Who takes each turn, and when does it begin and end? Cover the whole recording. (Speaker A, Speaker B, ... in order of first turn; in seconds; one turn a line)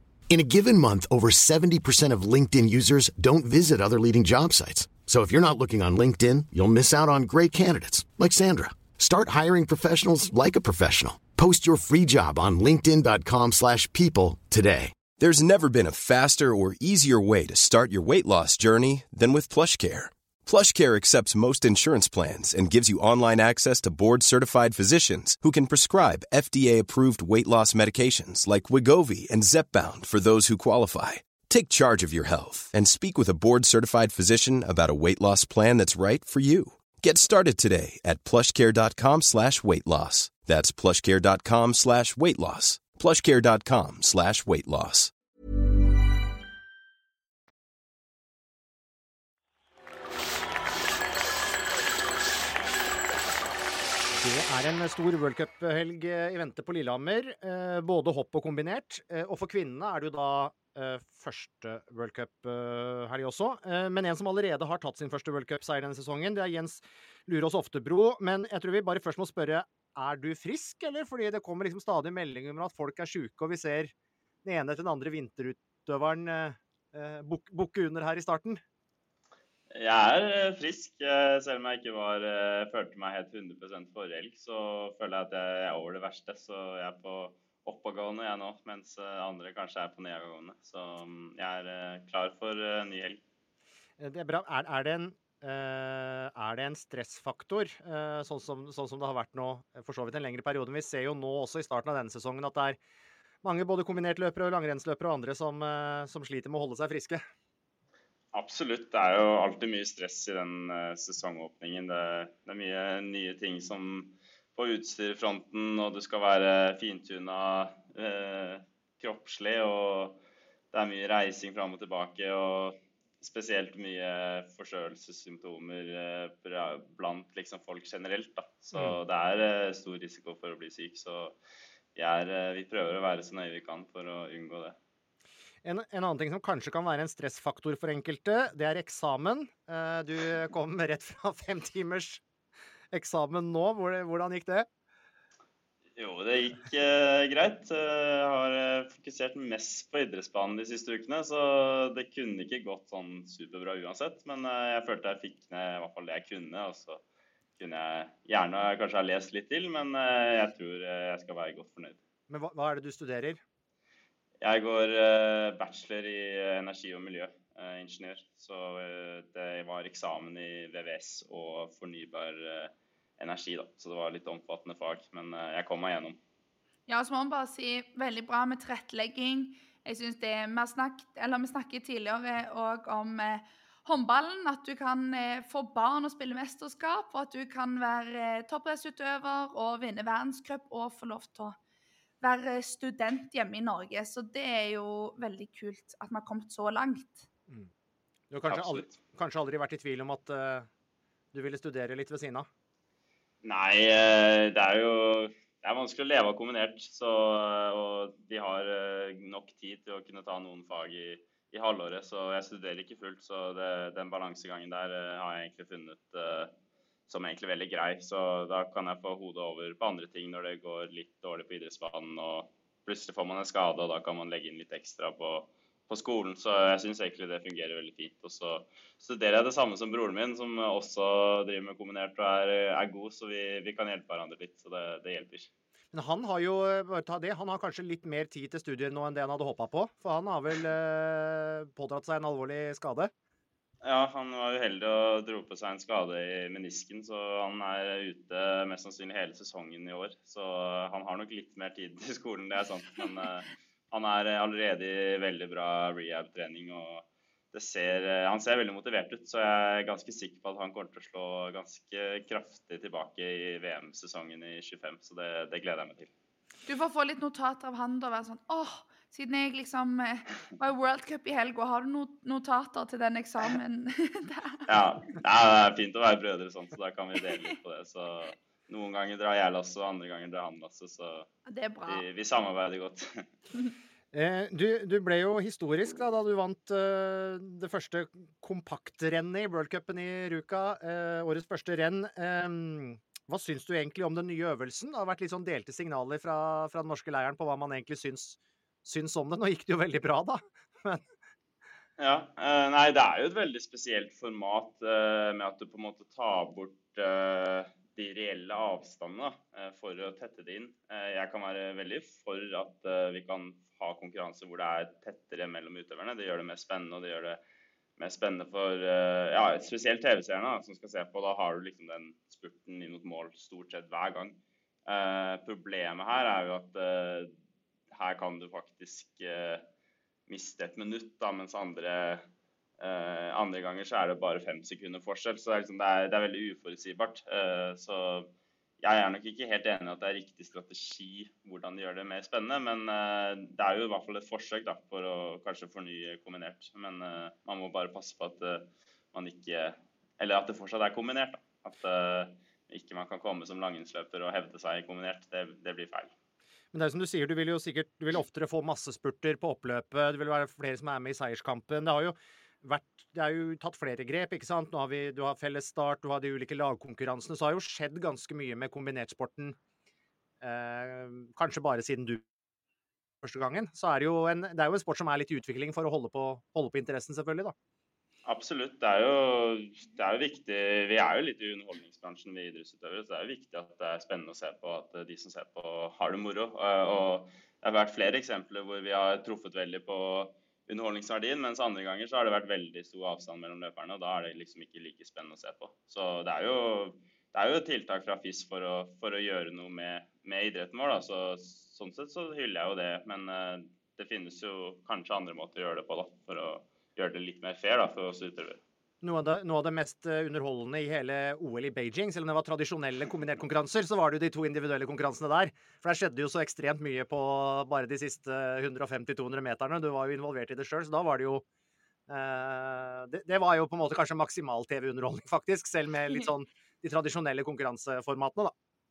Speaker A: 0.3-15.1
Speaker B: 15.2-45.1
Speaker C: 54.1-73.9
Speaker C: 74.4-78.6
Speaker D: 79.7-93.2
Speaker C: 94.0-102.8
Speaker C: 103.4-107.2
Speaker D: 108.3-120.2
Speaker D: 120.7-131.3
Speaker D: 131.9-134.8
Speaker C: 135.6-142.2
Speaker C: 142.9-144.7
Speaker D: 145.9-157.0
Speaker D: 157.6-162.0
Speaker C: 162.3-163.4
Speaker D: 164.4-176.2
Speaker E: 176.9-191.6
Speaker E: 192.2-197.3
Speaker C: 198.3-200.7
Speaker D: 198.5-198.9
Speaker C: 201.3-202.5
Speaker D: 203.4-216.5
Speaker D: 217.1-235.5
Speaker C: 235.9-243.1
Speaker D: 243.8-266.1
Speaker E: 266.6-274.6
Speaker D: 274.7-281.3
Speaker E: 281.4-282.0
Speaker D: 281.9-283.2
Speaker C: 284.1-301.0
Speaker D: 302.0-317.4
Speaker D: 318.0-327.3
Speaker D: 327.9-329.7
Speaker D: 330.3-332.3
Speaker D: 332.8-356.1
Speaker C: 356.7-369.6
Speaker C: 370.4-372.2
Speaker C: 373.2-377.5
Speaker D: 378.2-408.6
Speaker C: 409.0-421.4
Speaker C: 422.1-428.5